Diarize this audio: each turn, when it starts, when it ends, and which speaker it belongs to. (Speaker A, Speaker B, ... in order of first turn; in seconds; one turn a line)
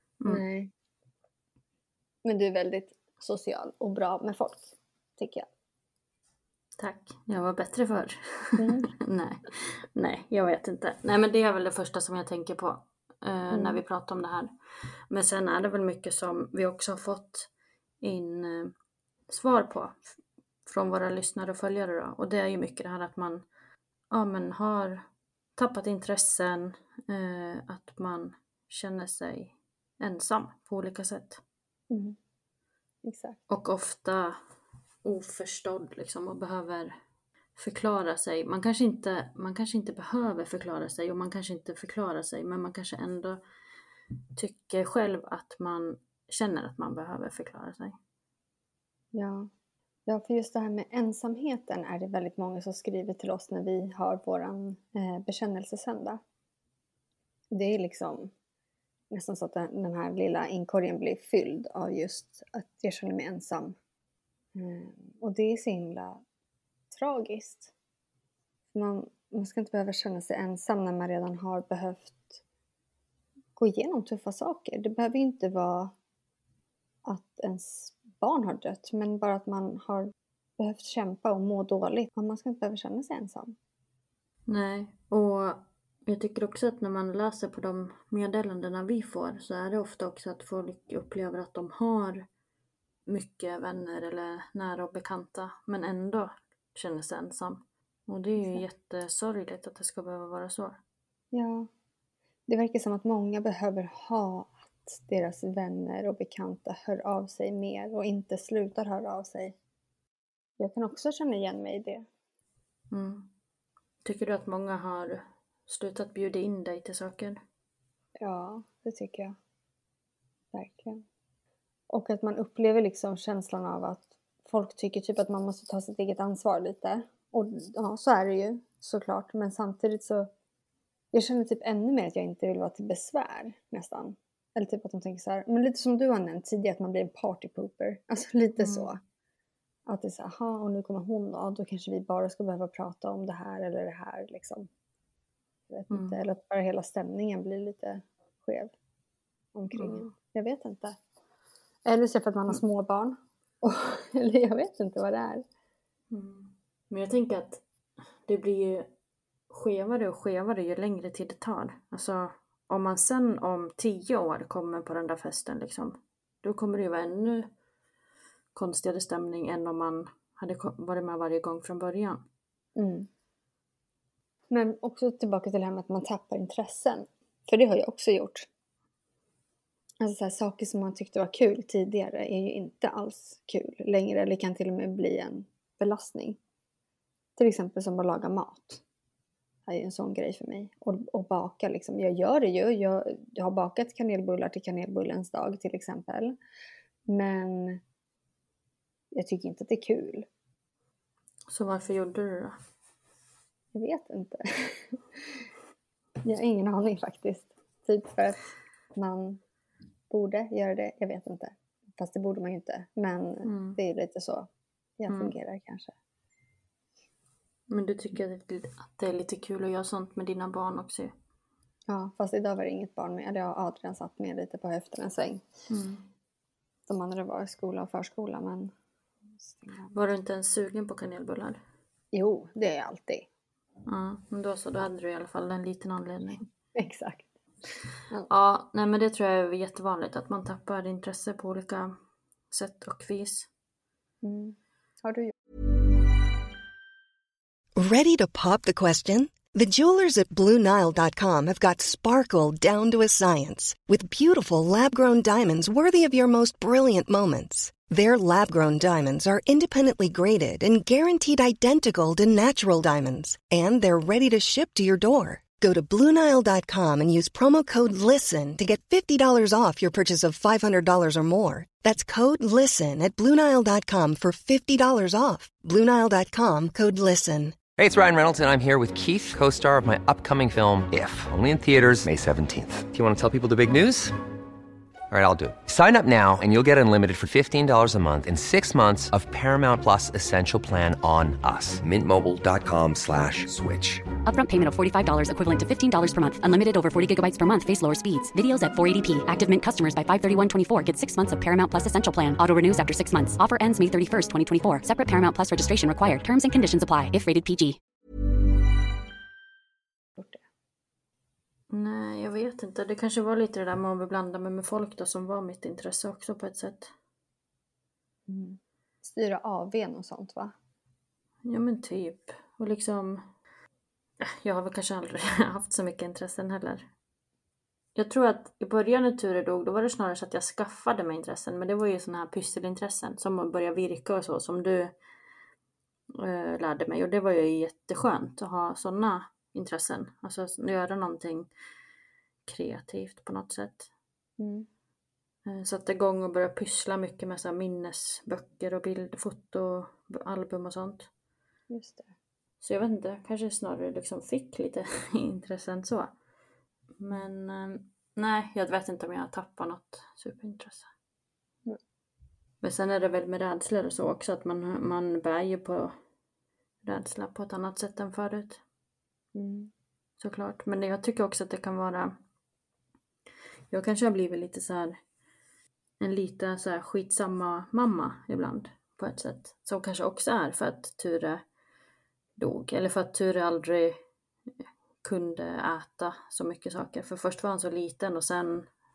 Speaker A: 0.2-0.7
Speaker A: 2.2-5.5
Speaker B: 6.8-17.5
Speaker A: 8.6-8.9
Speaker A: 13.5-13.8
Speaker B: 18.0-18.7
Speaker B: 19.3-20.1
Speaker B: 20.6-23.4
Speaker B: 24.1-25.0
Speaker B: 25.6-31.4
Speaker A: 31.9-32.2
Speaker A: 33.0-33.4
Speaker B: 33.5-34.4
Speaker B: 35.0-37.0
Speaker B: 37.5-43.4
Speaker B: 44.3-48.0
Speaker A: 49.1-49.5
Speaker A: 50.0-56.2
Speaker A: 57.5-58.3
Speaker A: 59.1-63.8
Speaker A: 64.5-66.2
Speaker A: 66.9-67.7
Speaker A: 68.7-72.4
Speaker A: 73.5-75.9
Speaker A: 77.0-83.5
Speaker B: 84.5-92.2
Speaker B: 93.1-100.8
Speaker A: 101.3-101.7
Speaker A: 102.5-109.5
Speaker A: 110.6-112.0
Speaker B: 112.9-113.3
Speaker B: 114.0-117.4
Speaker A: 118.2-119.4
Speaker A: 120.5-121.0
Speaker A: 121.9-130.3
Speaker A: 131.1-139.0
Speaker B: 138.6-138.9
Speaker A: 139.8-144.7
Speaker A: 145.7-148.7
Speaker B: 145.9-146.2
Speaker A: 149.5-151.0
Speaker B: 149.7-150.1
Speaker A: 151.8-155.4
Speaker B: 156.1-157.6
Speaker B: 158.2-158.9
Speaker B: 159.5-167.5
Speaker B: 168.5-172.2
Speaker A: 172.8-173.1
Speaker A: 174.5-178.5
Speaker A: 180.0-186.4
Speaker A: 187.4-188.8
Speaker A: 189.7-196.4
Speaker A: 197.1-197.8
Speaker A: 199.1-200.3
Speaker B: 201.5-202.6
Speaker A: 203.7-205.5
Speaker A: 206.2-208.4
Speaker A: 208.9-209.4
Speaker A: 210.1-214.5
Speaker B: 213.4-213.8
Speaker A: 215.0-215.9
Speaker B: 215.1-215.3
Speaker B: 217.7-221.1
Speaker A: 221.9-225.4
Speaker B: 225.7-226.0
Speaker A: 226.9-228.7
Speaker A: 229.4-229.9
Speaker B: 229.9-231.6
Speaker A: 232.1-233.3
Speaker B: 233.8-236.4
Speaker A: 236.7-237.3
Speaker B: 238.3-242.0
Speaker B: 242.5-243.5
Speaker A: 244.2-245.3
Speaker C: 247.8-277.6
Speaker D: 277.8-284.1
Speaker D: 285.1-294.1
Speaker E: 294.2-307.8
Speaker A: 310.2-310.4
Speaker B: 311.7-316.9
Speaker A: 318.3-320.5
Speaker B: 321.4-323.2
Speaker B: 324.2-326.9
Speaker B: 327.9-334.9
Speaker B: 336.1-341.5
Speaker B: 342.4-343.9
Speaker A: 344.4-344.7
Speaker B: 345.4-351.1
Speaker A: 351.7-352.1
Speaker B: 352.6-356.1
Speaker B: 357.0-360.9
Speaker B: 362.6-366.0
Speaker B: 366.8-368.6
Speaker A: 369.3-369.7
Speaker B: 370.2-372.1
Speaker B: 373.7-375.0
Speaker B: 376.0-381.4
Speaker B: 382.4-384.0
Speaker B: 385.0-388.7